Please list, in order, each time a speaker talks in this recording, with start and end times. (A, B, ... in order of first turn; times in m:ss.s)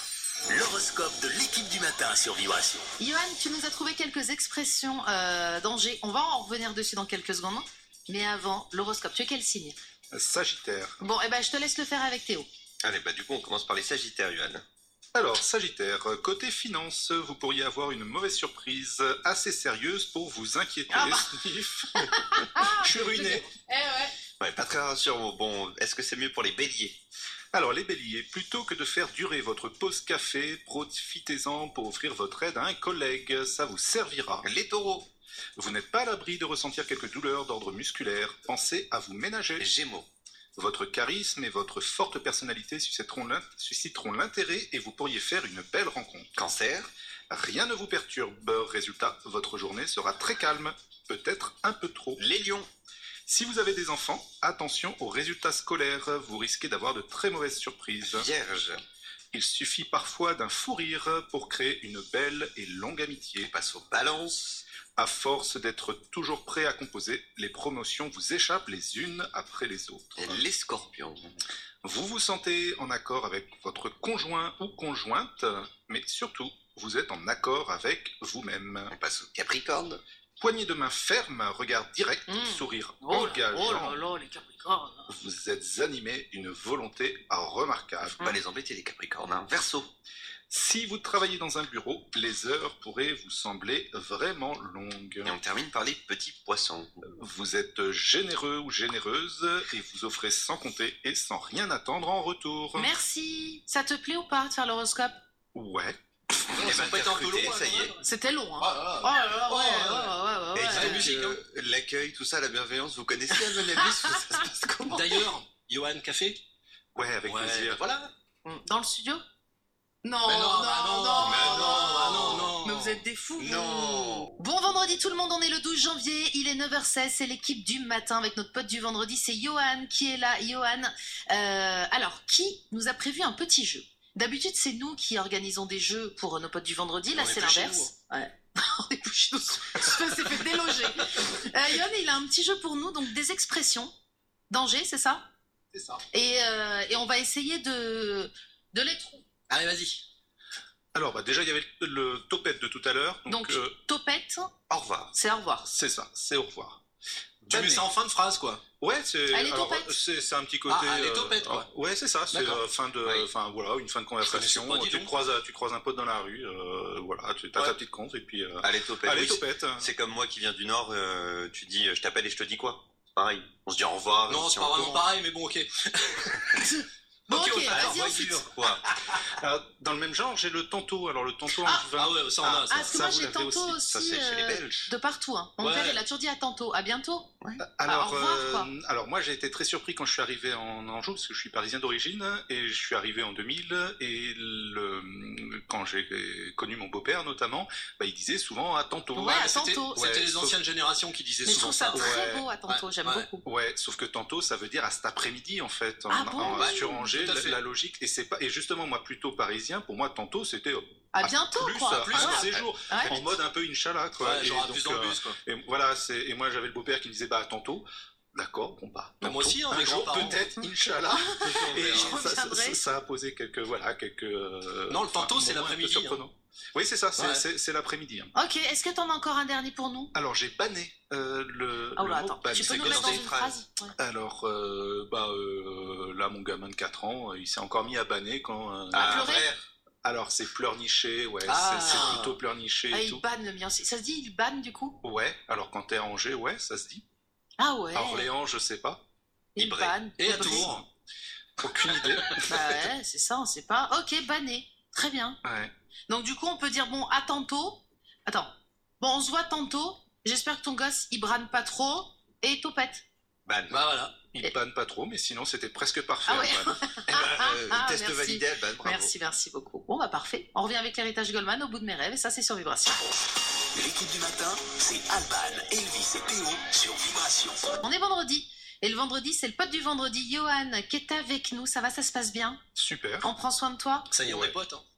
0:00.5-0:02.8 A
0:03.0-0:09.8 B
0:10.1-0:11.0 C
0:11.0-0:12.5 B
0:12.8-0:14.6 A
0:15.1-0:23.4 C
0:20.9-0:21.4 B
0:21.9-0:24.1 B
0:24.4-0:27.0 A
0:27.5-0:34.5 C
0:34.4-0:35.1 A
0:35.6-0:39.6 C
0:39.6-0:40.1 A
0:40.6-0:46.3 C
0:46.4-0:46.9 A
0:47.3-0:52.2 C
0:52.2-0:52.7 A
0:53.2-0:58.3 C
0:58.0-0:58.8 A
0:59.3-1:03.5 C
1:03.5-1:04.6 A
1:05.0-1:10.4 C
1:10.1-1:11.4 A
1:11.8-1:18.9 C
1:18.9-1:20.0 A
1:20.4-1:24.0 C
1:22.3-1:25.1 B
1:25.1-1:28.3 C
1:28.2-1:29.9 A
1:30.5-1:35.4 C
1:35.2-1:37.0 A
1:37.0-1:42.9 C
1:42.8-1:45.2 B
1:45.5-1:46.0 C
1:46.5-1:48.0 D
1:46.6-1:47.9 A
1:48.0-1:51.1 B
1:48.6-1:51.4 D
1:49.5-1:49.8 A
1:50.5-1:55.1 A
1:53.3-1:54.2 B
1:54.9-1:56.4 D
1:56.9-1:57.8 C
1:57.2-1:58.1 D
1:58.4-1:59.2 B
2:00.0-2:23.9 B
2:00.2-2:03.0 D
2:01.2-2:02.5 A
2:03.4-2:04.3 A
2:17.1-2:17.9 D
2:24.5-2:25.2 B
2:25.7-2:26.0 D
2:26.1-2:29.2 B
2:29.5-2:30.0 D
2:30.9-2:33.7 C
2:33.3-2:34.5 B
2:34.7-2:35.1 A
2:35.1-2:35.7 B
2:35.7-2:36.8 C
2:37.4-2:37.9 C
2:37.5-2:38.6 D
2:38.8-2:49.9 C
2:39.3-2:40.0 B
2:40.7-2:41.6 D
2:42.3-2:42.6 D
2:43.0-2:43.3 A
2:44.2-2:45.1 D
2:48.6-2:55.0 A
2:54.3-2:56.7 D
2:56.6-2:58.4 B
2:57.3-2:58.4 D
2:57.7-2:59.2 A
2:59.3-3:03.8 C
3:01.9-3:02.9 D
3:02.7-3:07.3 B
3:03.7-3:04.9 A
3:05.6-3:06.0 D
3:07.6-3:19.3 C
3:07.8-3:08.7 B
3:19.2-3:20.0 B
3:19.2-3:23.3 D
3:19.9-3:20.6 C
3:21.4-3:23.4 B
3:21.9-3:22.5 C
3:23.4-3:48.3 C
3:26.1-3:27.1 B
3:26.5-3:27.6 D
3:31.1-3:33.2 B
3:32.0-3:32.4 D
3:32.4-3:33.2 A
3:34.2-3:35.4 D
3:39.2-3:40.4 D
3:40.6-3:42.8 B
3:41.4-3:42.1 A
3:44.9-3:46.2 D
3:47.2-3:47.4 D
3:48.3-3:50.1 B
3:50.1-3:53.2 C
3:52.0-3:53.9 B
3:52.6-3:53.6 A
3:54.0-3:59.4 C
3:58.9-3:59.6 A
3:59.0-3:59.5 B
4:00.0-4:03.2 C
4:01.4-4:02.3 D
4:01.8-4:02.3 B
4:02.9-4:05.0 B
4:05.0-4:07.0 C
4:07.6-4:08.3 B
4:07.9-4:09.0 C
4:09.6-4:10.7 B
4:09.6-4:10.0 A
4:10.2-4:10.8 D
4:10.4-4:10.8 C
4:11.6-4:12.7 C
4:12.5-4:15.4 B
4:15.4-4:15.7 C
4:16.1-4:23.0 B
4:23.4-4:23.8 A
4:23.7-4:24.2 D
4:24.3-4:26.8 C
4:26.2-4:33.0 B
4:27.0-4:29.1 A
4:33.8-4:34.1 D
4:34.2-4:37.4 E
4:34.6-4:35.7 D
4:37.8-4:42.6 B
4:42.8-4:43.3 C
4:43.2-4:44.1 B
4:44.1-4:44.8 D